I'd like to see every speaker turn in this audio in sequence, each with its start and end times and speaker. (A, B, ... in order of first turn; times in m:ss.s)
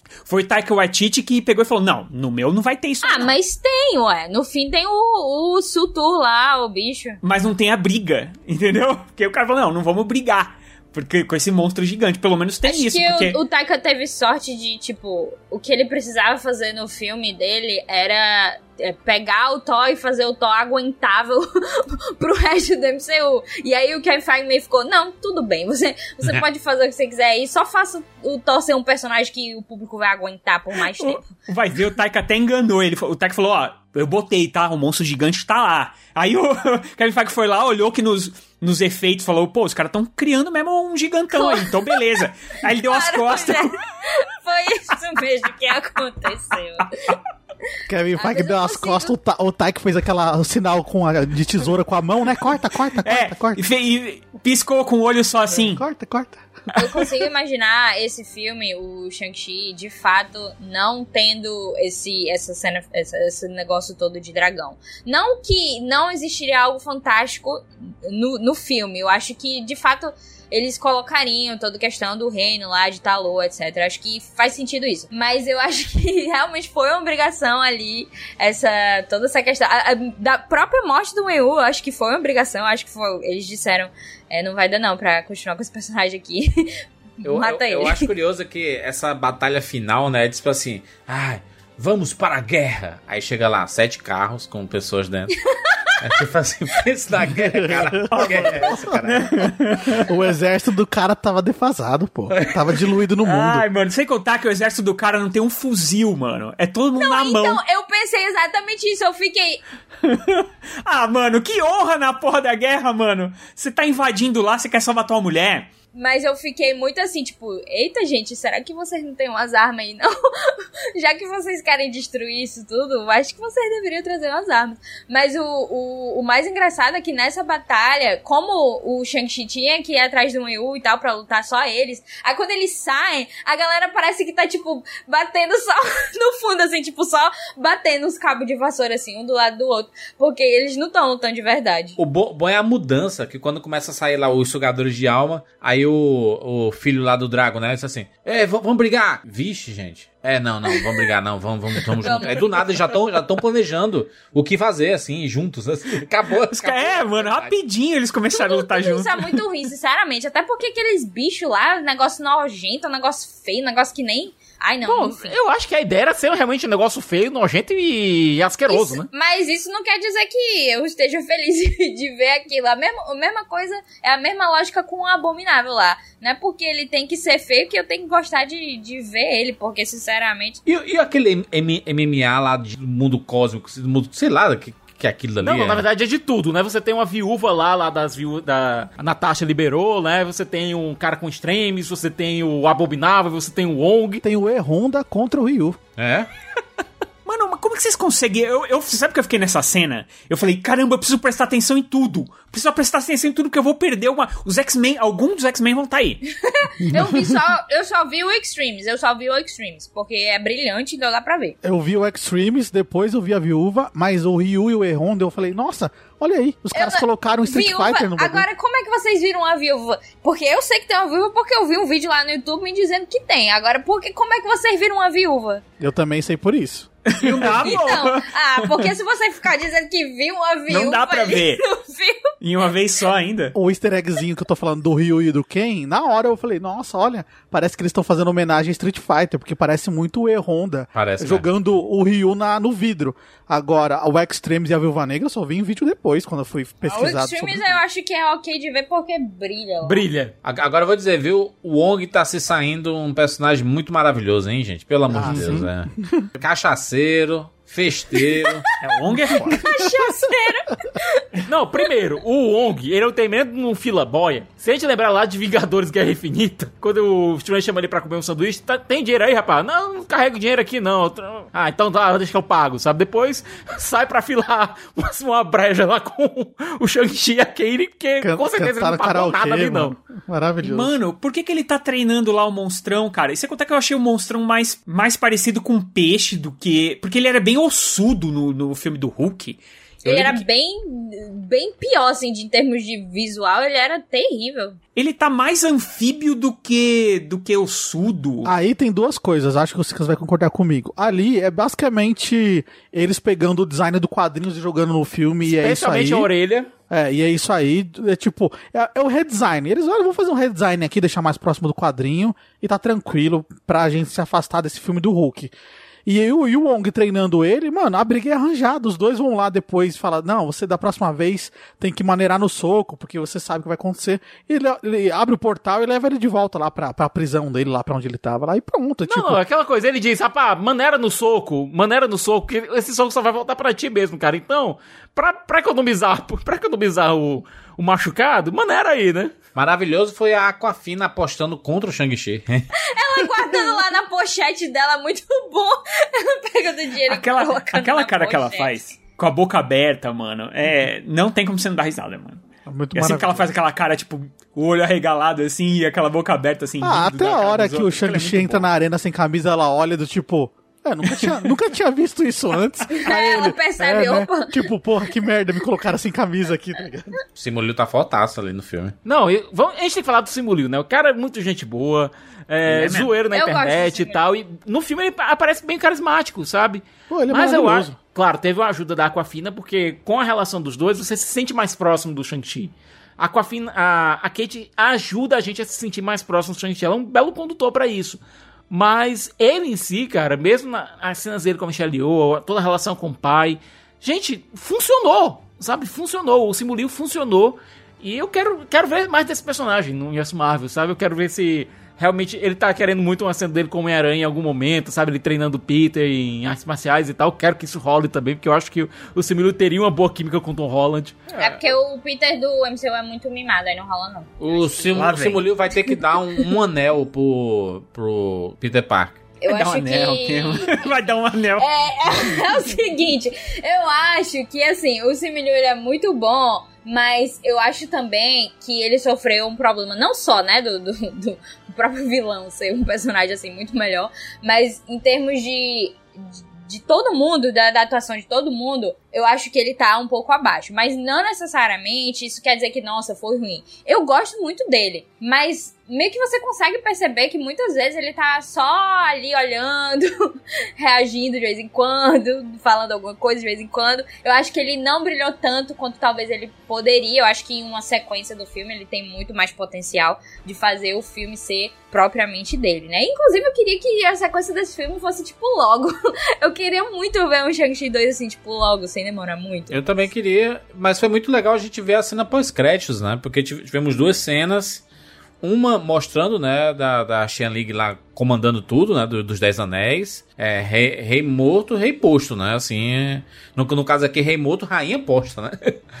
0:00.3-0:03.3 A
0:03.0-0:07.2 B
0:07.2-0:13.4 A
0:12.6-0:31.3 B
0:31.0-0:43.8 A
0:41.3-0:41.8 B
0:42.8-0:47.1 B
0:47.9-0:53.6 C
0:48.2-0:49.1 B
0:53.0-0:55.8 A
0:55.5-0:56.4 C
0:56.7-1:26.5 B
1:27.2-1:28.1 B
1:27.2-1:35.3 D
1:35.6-1:35.9 B
1:36.0-1:39.5 D
1:37.3-1:43.6 C
1:38.1-1:40.0 A
1:43.2-1:47.6 A
1:47.0-1:49.6 B
1:50.0-1:55.7 A
1:55.9-2:22.0 B
2:22.0-2:37.5 D
2:32.0-2:32.4 B
2:36.5-2:39.3 A
2:38.3-2:45.4 B
2:44.8-2:49.1 E
2:48.7-3:00.6 B
3:00.6-3:05.8 D
3:05.4-3:14.2 E
3:14.2-3:15.8 C
3:16.0-3:16.3 D
3:17.2-3:26.2 A
3:26.4-3:31.6 B
3:26.8-3:27.3 C
3:31.6-3:38.4 C
3:36.7-3:45.6 B
3:45.8-3:48.0 C
3:47.1-3:48.9 A
3:47.5-3:52.2 B
3:50.7-3:51.6 A
3:52.4-3:53.5 A
3:53.5-4:07.8 C
4:00.9-4:01.4 D
4:06.8-4:10.1 B
4:09.8-4:10.3 E
4:10.4-4:18.6 D
4:15.1-4:16.3 C
4:15.2-4:15.6 E
4:18.8-4:19.6 A
4:19.5-4:21.3 B
4:21.5-4:39.9 E
4:38.2-4:40.9 C
4:40.6-4:50.4 A
4:50.0-4:54.8 B
4:55.0-4:58.5 A
4:58.4-5:06.3 C
5:05.4-5:06.7 E
5:06.9-5:15.5 C
5:16.0-5:29.4 C
5:29.0-5:39.3 E
5:39.5-5:42.7 D
5:42.9-5:48.7 B
5:47.1-5:52.4 A
5:52.6-5:53.5 C
5:52.9-5:58.7 A
5:56.8-6:07.1 C
6:01.1-6:01.4 A
6:02.9-6:04.5 B
6:07.3-6:08.9 D
6:09.0-6:51.3 E
6:12.7-6:13.1 A
6:13.3-6:14.2 B
6:17.1-6:18.0 C
6:51.3-6:51.6 D
6:51.4-6:55.0 B
6:54.4-6:59.2 D
6:54.9-6:55.4 A
6:59.4-7:00.8 B
6:59.5-7:01.7 A
7:01.6-7:16.0 B
7:16.7-7:49.7 B
7:49.7-7:54.8 D
7:55.4-8:05.8 D